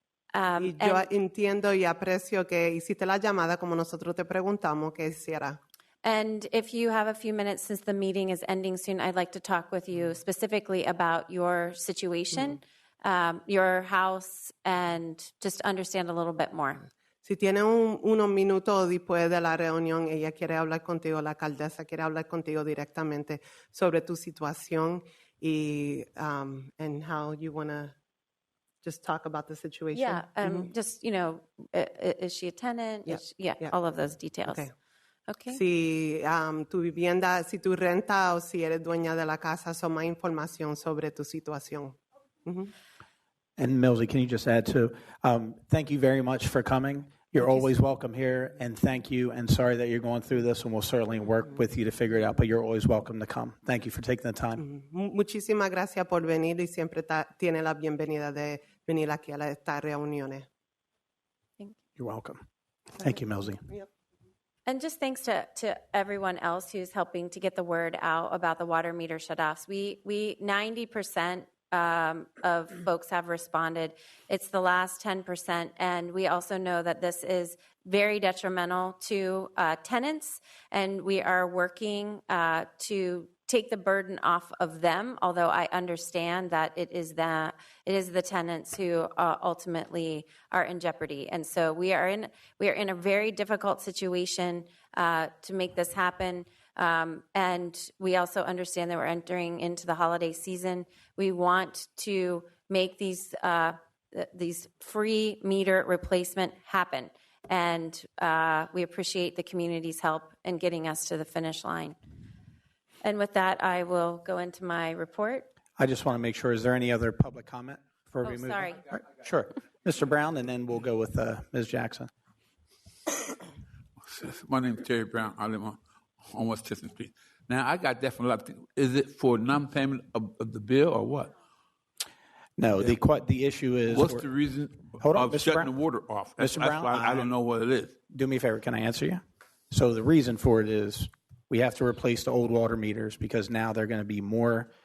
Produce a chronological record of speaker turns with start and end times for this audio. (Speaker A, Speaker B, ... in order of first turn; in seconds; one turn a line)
Speaker A: 0.3-1.1
Speaker B: 0.6-5.6
Speaker A: 6.0-16.8
Speaker B: 17.2-27.9
Speaker B: 28.8-30.7
Speaker A: 29.9-34.7
Speaker B: 33.0-33.7
Speaker B: 34.5-34.7
Speaker A: 35.3-35.6
Speaker B: 35.5-42.7
Speaker C: 43.6-54.6
Speaker B: 54.6-60.5
Speaker C: 62.0-62.4
Speaker C: 63.0-63.6
Speaker A: 64.7-111.9
Speaker A: 113.0-115.5
Speaker C: 115.8-122.1
Speaker A: 118.2-118.8
Speaker D: 124.0-131.3
Speaker C: 132.6-134.2
Speaker D: 133.9-137.9
Speaker C: 135.0-135.7
Speaker C: 136.4-137.3
Speaker C: 138.1-144.7